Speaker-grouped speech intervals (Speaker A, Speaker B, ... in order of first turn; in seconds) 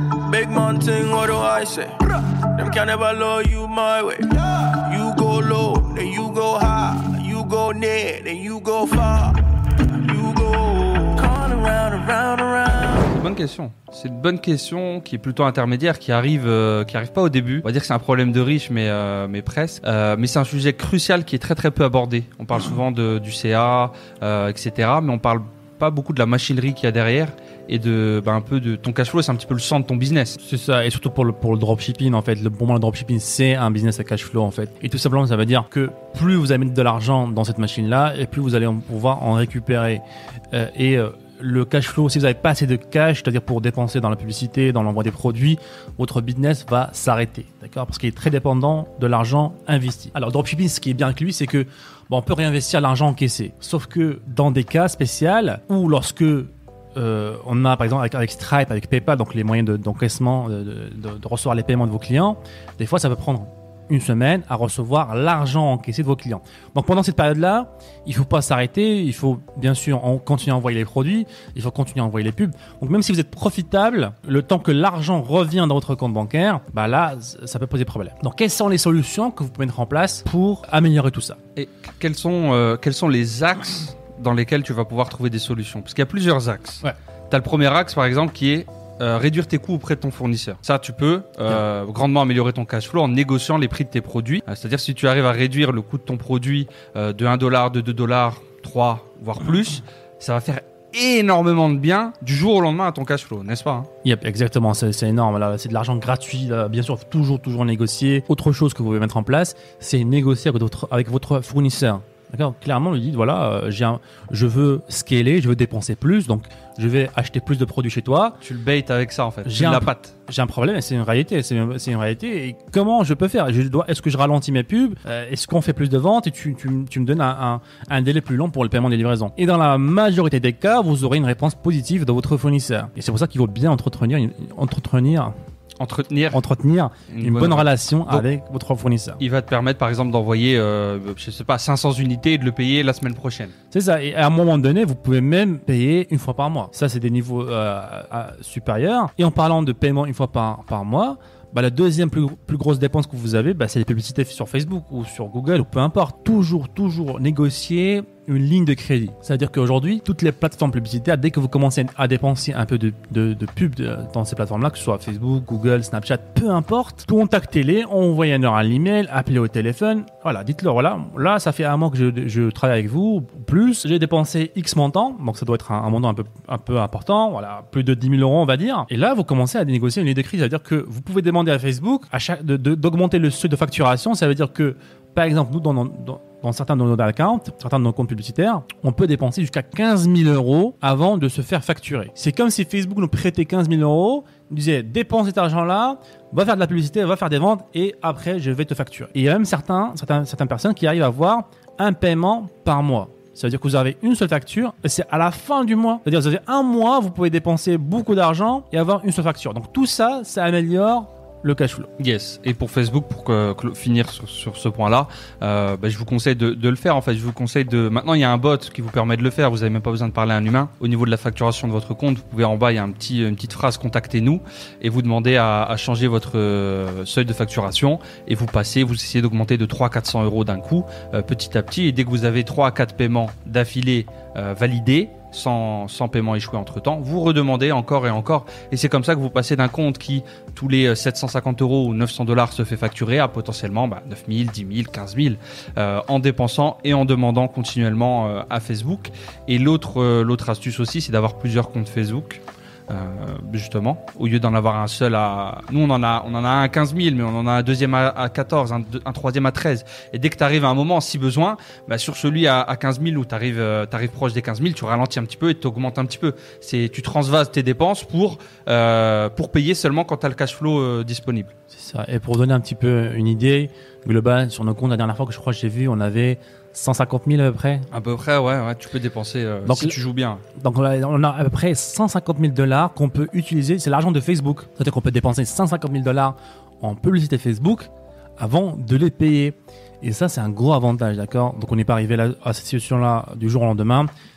Speaker A: 0.2-13.0
Speaker B: 12.9-30.4, 81.6-103.9, 118.4-120.1, 135.8-136.4, 137.1-138.3, 139.2-143.5, 212.0-271.5, 277.9-280.4
Speaker C: 30.4-81.4, 104.0-118.4, 119.4-135.3, 136.3-139.2, 143.7-211.9, 271.7-277.9, 279.6-280.0, 280.6-294.1